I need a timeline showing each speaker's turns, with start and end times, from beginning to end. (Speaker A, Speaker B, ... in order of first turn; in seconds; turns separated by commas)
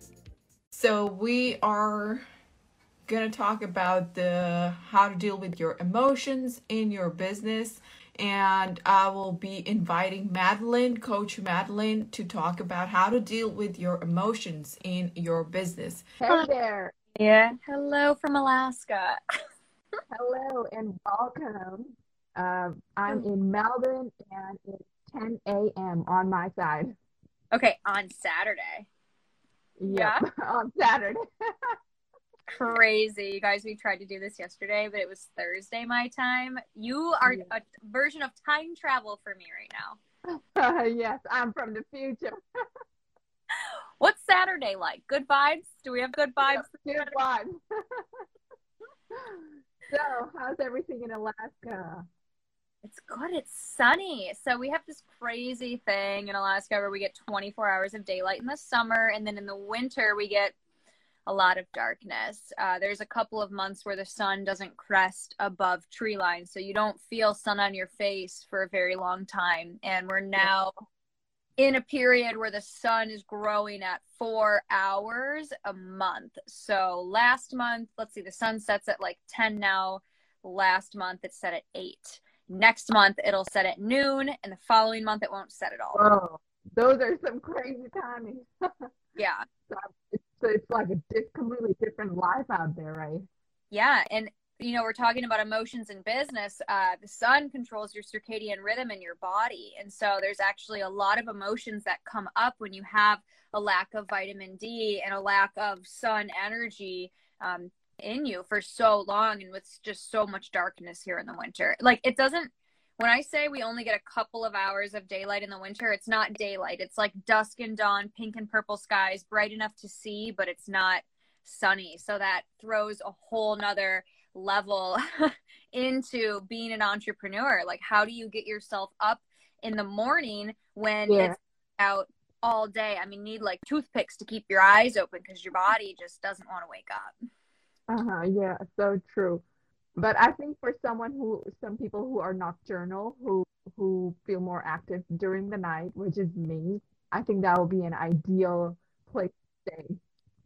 Speaker A: 0.7-2.2, Speaker A: 3.0-16.0, Speaker B: 16.2-16.9, Speaker C: 17.1-19.2, Speaker B: 20.1-26.9, Speaker C: 27.5-28.9, Speaker B: 29.8-31.8, Speaker C: 29.9-30.2, Speaker C: 32.5-40.0, Speaker B: 40.3-42.6, Speaker C: 43.6-47.1, Speaker B: 46.4-48.2, Speaker B: 49.1-52.1, Speaker C: 52.8-60.5, Speaker C: 61.2-70.7, Speaker C: 71.6-86.0, Speaker B: 85.9-88.9, Speaker C: 89.2-89.5, Speaker B: 89.7-93.2, Speaker C: 93.7-137.1, Speaker B: 131.1-131.3, Speaker B: 137.9-139.4, Speaker B: 140.0-150.0